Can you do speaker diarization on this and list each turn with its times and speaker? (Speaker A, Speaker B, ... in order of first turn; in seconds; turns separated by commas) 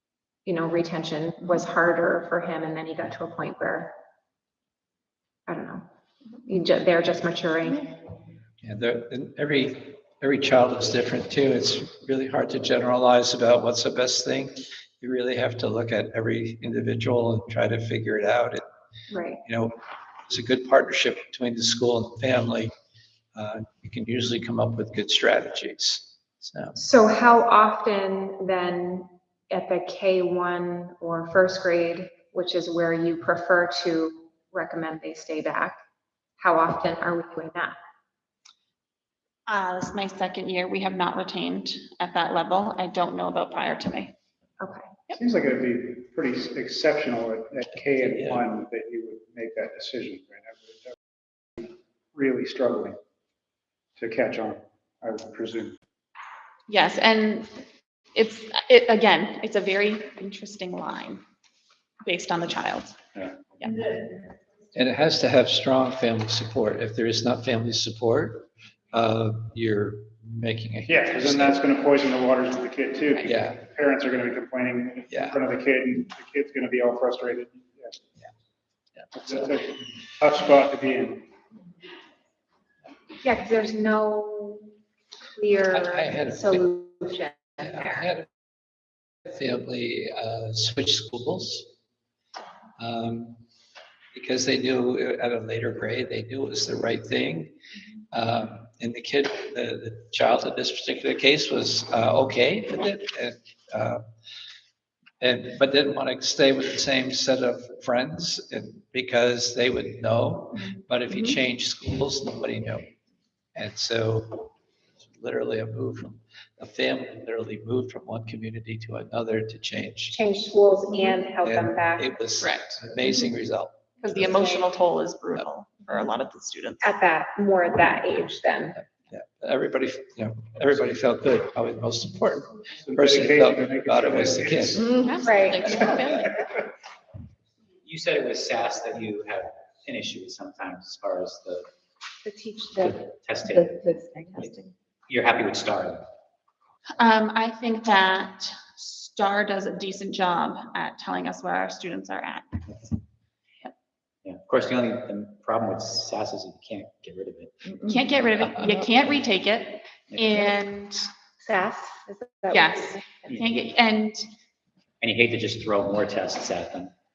Speaker A: 0.4-3.9, Speaker A: 5.5-5.8, Speaker A: 6.4-8.0, Speaker B: 8.6-18.6, Speaker A: 19.1-19.4, Speaker B: 19.4-19.8, Speaker B: 20.3-22.7, Speaker B: 23.3-26.8, Speaker A: 26.8-35.8, Speaker A: 36.4-37.8, Speaker C: 39.5-44.1, Speaker A: 44.6-44.9, Speaker D: 45.1-51.0, Speaker B: 48.0-48.4, Speaker D: 51.6-53.0, Speaker D: 54.0-55.8, Speaker C: 56.7-57.5, Speaker C: 58.1-61.2, Speaker C: 62.0-63.0, Speaker D: 63.1-63.4, Speaker C: 63.5-63.9, Speaker B: 64.7-71.6, Speaker D: 70.9-78.0, Speaker B: 73.2-73.6, Speaker B: 75.1-75.4, Speaker D: 79.1-81.3, Speaker A: 83.2-84.7, Speaker A: 85.3-88.1, Speaker B: 85.7-86.7, Speaker B: 87.6-88.3, Speaker B: 89.2-91.7, Speaker B: 92.8-93.4, Speaker B: 94.1-97.5, Speaker B: 98.1-104.0, Speaker B: 105.2-112.9, Speaker B: 113.5-120.2, Speaker A: 120.1-122.2, Speaker B: 121.4-124.4, Speaker C: 122.4-122.7, Speaker C: 124.0-126.9, Speaker A: 124.4-124.6, Speaker A: 126.8-128.8, Speaker B: 129.1-134.9, Speaker D: 132.7-135.0, Speaker E: 134.8-135.2, Speaker C: 135.0-136.5, Speaker A: 135.2-135.9, Speaker F: 137.8-141.7, Speaker E: 142.2-144.7, Speaker F: 142.8-143.8, Speaker F: 145.1-146.1, Speaker C: 147.0-152.7, Speaker F: 154.2-157.8, Speaker C: 157.8-161.1, Speaker F: 160.1-160.4, Speaker E: 161.4-163.1, Speaker C: 162.5-164.3, Speaker F: 165.0-166.9